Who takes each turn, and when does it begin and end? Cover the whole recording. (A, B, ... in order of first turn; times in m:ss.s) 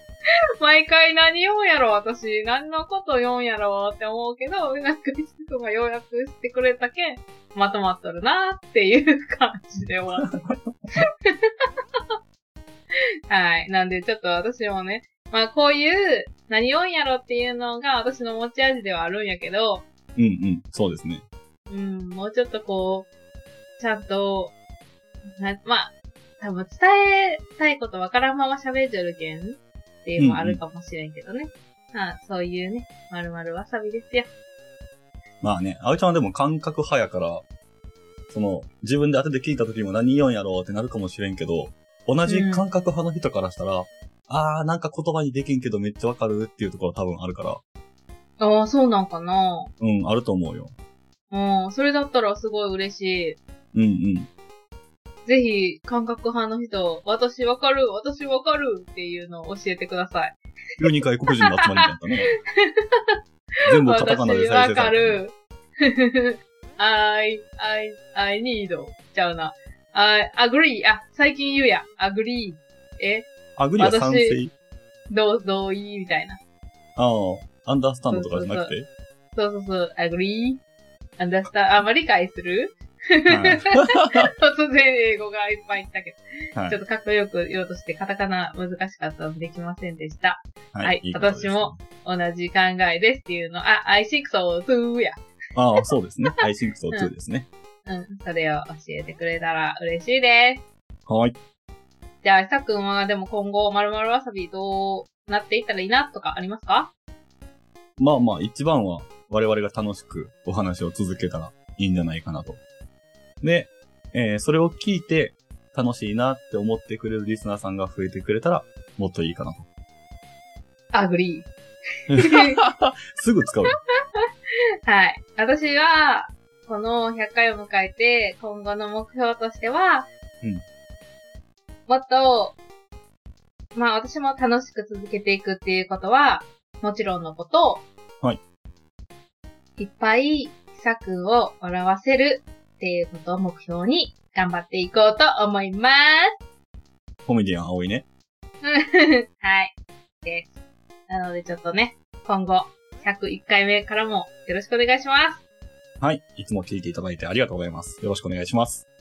0:00.6-0:11.4 A
0:10.2-0:10.6 B
0:13.3-0:19.8 A
0:20.2-0:21.2 B
0:21.7-0:23.1 A
0:23.8-0:24.5 A
0:25.3-0:34.3 A
0:30.2-0:30.6 B
0:35.4-0:37.4 B
0:38.3-0:47.6 B
0:42.3-0:42.6 A
0:48.4-0:49.7 A
0:49.8-0:50.7 B
0:51.3-0:53.4 A
0:53.7-0:54.3 B
0:55.2-1:00.4 A
1:00.8-1:02.3 B
1:02.6-1:03.2 A
1:03.6-1:05.2 B
1:03.8-1:14.4 A
1:13.6-1:14.5 B
1:15.1-1:16.4 A
1:17.0-1:18.9 B
1:18.1-1:18.7 A
1:19.3-1:20.6 A
1:21.2-1:35.2 A
1:23.3-1:24.3 B
1:30.7-1:31.8 B
1:35.5-1:37.5 B
1:37.8-1:40.6 A
1:41.1-1:41.4 B
1:42.2-1:46.9 A
1:48.0-1:52.6 B
1:53.4-1:59.6 B
2:00.9-2:01.5 A
2:02.1-2:03.8 B
2:02.2-2:02.6 A
2:04.8-2:10.1 A
2:11.9-2:12.6 A
2:13.7-2:17.8 A
2:19.8-2:26.3 A
2:27.2-2:28.0 B
2:28.6-2:30.6 A
2:31.1-2:35.4 A
2:36.0-2:38.8 B